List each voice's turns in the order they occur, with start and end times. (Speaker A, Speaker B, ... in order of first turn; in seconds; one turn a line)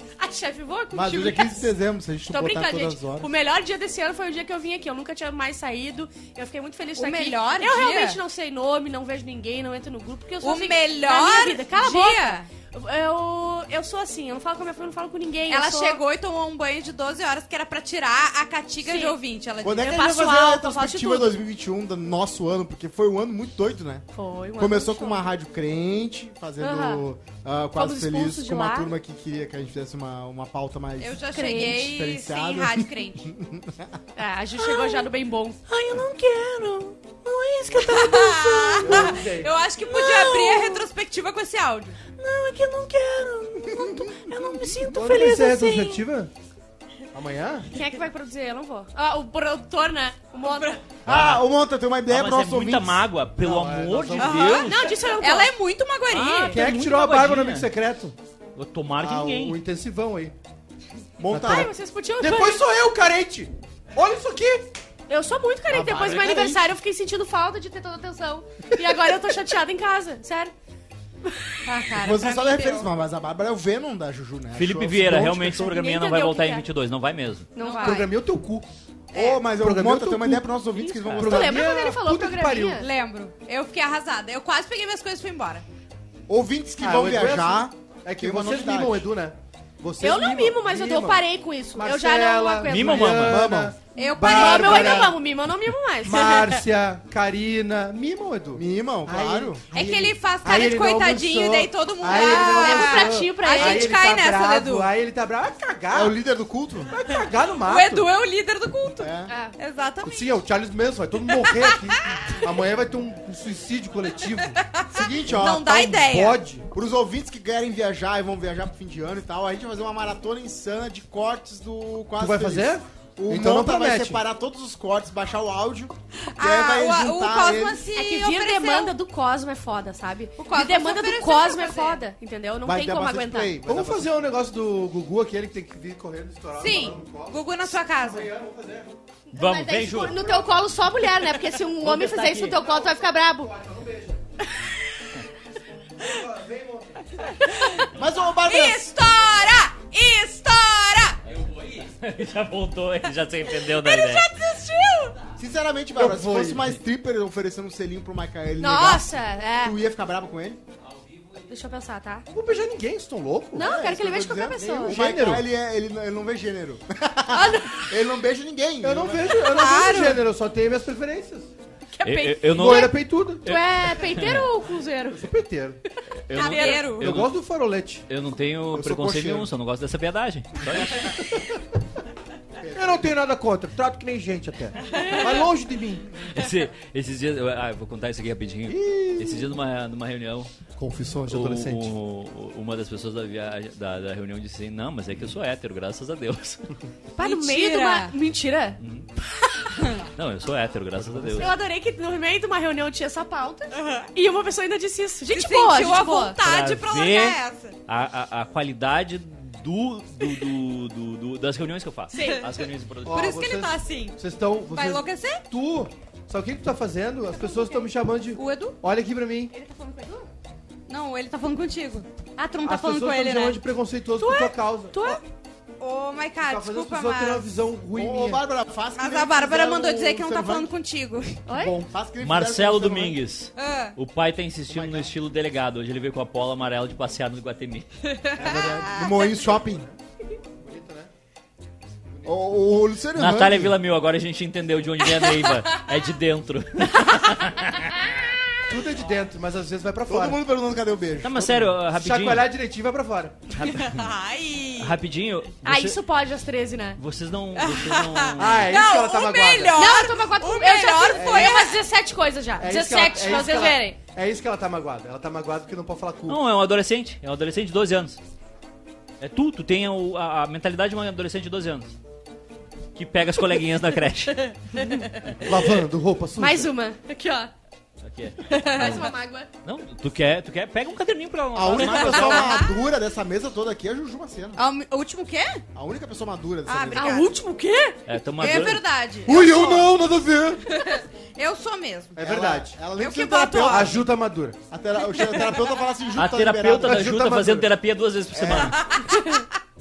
Speaker A: 0.2-1.7
Speaker B: 0.9-3.3
Speaker A: 2.3-16.0
Speaker C: 7.0-8.2
Speaker C: 10.4-12.4
Speaker C: 15.5-20.0
Speaker A: 18.8-19.2
Speaker B: 19.6-24.1
Speaker A: 19.8-21.4
Speaker A: 24.1-25.2
Speaker B: 24.6-33.9
Speaker A: 26.6-27.0
Speaker A: 27.8-28.9
Speaker C: 31.0-33.3
Speaker A: 31.3-31.9
Speaker A: 34.1-35.6
Speaker A: 37.2-39.2
Speaker C: 37.7-42.0
Speaker D: 38.8-39.5
Speaker A: 39.9-40.8
Speaker B: 43.6-44.8
Speaker A: 43.7-46.0
Speaker D: 44.8-46.3
Speaker D: 47.1-47.7
Speaker A: 47.7-50.8
Speaker C: 50.4-50.8
Speaker E: 51.0-51.5
Speaker B: 51.0-53.1
Speaker E: 52.1-54.9
Speaker D: 53.4-54.7
Speaker C: 54.2-56.6
Speaker A: 54.6-55.5
Speaker A: 56.1-56.6
Speaker E: 56.4-57.7
Speaker D: 56.5-58.1
Speaker E: 58.5-59.6
Speaker B: 59.0-59.4
Speaker D: 59.2-60.3
Speaker B: 61.2-61.7
Speaker D: 61.3-64.7
Speaker A: 61.4-62.6
Speaker A: 65.1-70.5
Speaker B: 65.7-66.7
Speaker A: 71.2-72.8
Speaker C: 71.7-72.8
Speaker B: 71.9-75.6
Speaker E: 74.5-77.5
Speaker A: 75.5-76.6
Speaker A: 77.5-78.1
Speaker C: 77.6-78.1
Speaker D: 77.8-78.7
Speaker C: 79.1-79.4
Speaker B: 79.1-81.7
Speaker D: 79.4-80.5
Speaker A: 80.8-82.8
Speaker D: 81.1-82.8
Speaker C: 82.8-85.6
Speaker B: 86.3-89.1
Speaker D: 86.8-91.2
Speaker A: 90.0-93.2
Speaker D: 91.7-95.1
Speaker E: 92.6-93.5
Speaker B: 93.2-93.7
Speaker C: 93.9-95.0
Speaker A: 94.2-96.4
Speaker B: 94.3-95.1
Speaker D: 96.0-106.1
Speaker B: 98.5-99.6
Speaker C: 99.7-104.9
Speaker A: 102.1-103.9
Speaker B: 105.9-106.9
Speaker D: 106.9-108.1
Speaker C: 107.6-110.4
Speaker B: 109.0-109.3
Speaker A: 109.3-109.5
Speaker D: 110.0-114.7
Speaker C: 111.3-112.4
Speaker C: 114.7-116.4
Speaker B: 114.9-115.7
Speaker D: 115.4-116.7
Speaker B: 116.7-127.8
Speaker D: 122.2-124.2
Speaker C: 126.3-128.9
Speaker A: 127.9-133.5
Speaker C: 130.4-132.0
Speaker B: 132.6-134.1
Speaker D: 133.7-138.9
Speaker C: 136.5-138.3
Speaker A: 139.3-143.5
Speaker E: 139.3-140.3
Speaker D: 140.2-140.7
Speaker E: 141.8-142.2
Speaker D: 141.9-144.2
Speaker D: 146.0-147.3
Speaker B: 147.9-148.9
Speaker C: 148.4-151.2
Speaker E: 151.8-154.3
Speaker C: 153.5-155.2
Speaker B: 155.4-160.6
Speaker D: 155.9-156.7
Speaker A: 158.6-159.8
Speaker A: 161.5-162.3
Speaker D: 162.3-163.7
Speaker A: 163.5-165.0
Speaker B: 163.6-169.4
Speaker D: 164.6-165.4
Speaker A: 167.3-167.9
Speaker D: 168.8-171.5
Speaker C: 169.3-170.2
Speaker A: 171.9-175.3
Speaker E: 172.0-174.5
Speaker D: 172.5-173.5
Speaker D: 175.1-175.8
Speaker A: 175.9-176.9
Speaker E: 176.1-177.4
Speaker C: 176.3-177.1
Speaker D: 176.7-178.1
Speaker E: 178.1-181.1
Speaker B: 178.7-179.5
Speaker D: 181.0-181.5
Speaker B: 182.6-183.1
Speaker D: 182.7-186.2
Speaker A: 184.9-185.2
Speaker E: 186.3-190.5
Speaker D: 188.7-189.5
Speaker D: 190.8-191.9
Speaker E: 191.2-196.6
Speaker A: 197.2-200.0
Speaker C: 197.2-198.1
Speaker E: 198.8-199.1
Speaker E: 200.1-201.5
Speaker D: 201.0-201.5
Speaker A: 201.3-206.4
Speaker C: 203.7-204.1
Speaker C: 205.3-207.8
Speaker E: 206.4-213.3
Speaker A: 212.1-212.5
Speaker C: 212.2-212.4
Speaker D: 213.0-219.5
Speaker C: 213.1-215.4
Speaker A: 217.3-217.9
Speaker C: 218.3-218.8
Speaker A: 219.5-220.3
Speaker C: 220.9-223.6
Speaker D: 222.6-224.9
Speaker A: 224.2-225.2
Speaker C: 225.8-227.5
Speaker D: 226.4-228.4
Speaker B: 227.9-230.7
Speaker C: 228.9-231.4
Speaker A: 231.5-231.8
Speaker D: 231.5-231.9
Speaker B: 231.9-233.2
Speaker E: 232.2-237.8
Speaker C: 233.6-233.9
Speaker B: 234.7-235.1
Speaker C: 238.2-239.1
Speaker B: 238.3-239.8
Speaker D: 239.2-239.9
Speaker D: 240.6-241.1
Speaker D: 242.1-242.5
Speaker B: 242.2-243.8
Speaker E: 243.1-248.1
Speaker D: 248.7-250.4
Speaker B: 250.1-251.8
Speaker E: 251.2-252.5
Speaker D: 251.9-253.6
Speaker C: 253.6-254.9
Speaker E: 254.8-256.0
Speaker A: 255.6-257.0
Speaker E: 257.0-258.8
Speaker C: 257.6-261.8
Speaker D: 258.4-259.8
Speaker A: 259.7-264.0
Speaker D: 261.1-261.6
Speaker D: 262.6-266.4
Speaker E: 266.3-268.2
Speaker E: 269.2-271.9
Speaker E: 272.9-274.6
Speaker A: 274.3-275.4
Speaker D: 275.4-276.7
Speaker A: 276.4-277.5
Speaker E: 278.0-282.6
Speaker A: 278.4-279.5
Speaker B: 281.5-284.6
Speaker C: 282.1-282.7
Speaker C: 284.6-285.6
Speaker B: 285.7-287.3
Speaker C: 286.6-287.3
Speaker A: 286.9-288.0
Speaker E: 288.1-288.9
Speaker C: 288.4-289.5
Speaker D: 289.2-290.6
Speaker B: 289.3-289.9
Speaker C: 291.4-292.1
Speaker D: 292.1-292.8
Speaker B: 292.1-294.1
Speaker C: 293.0-293.9
Speaker D: 293.7-294.6
Speaker B: 294.7-297.1
Speaker E: 296.1-298.8
Speaker D: 296.8-297.7
Speaker B: 298.3-298.8
Speaker C: 298.8-299.2
Speaker A: 299.1-299.4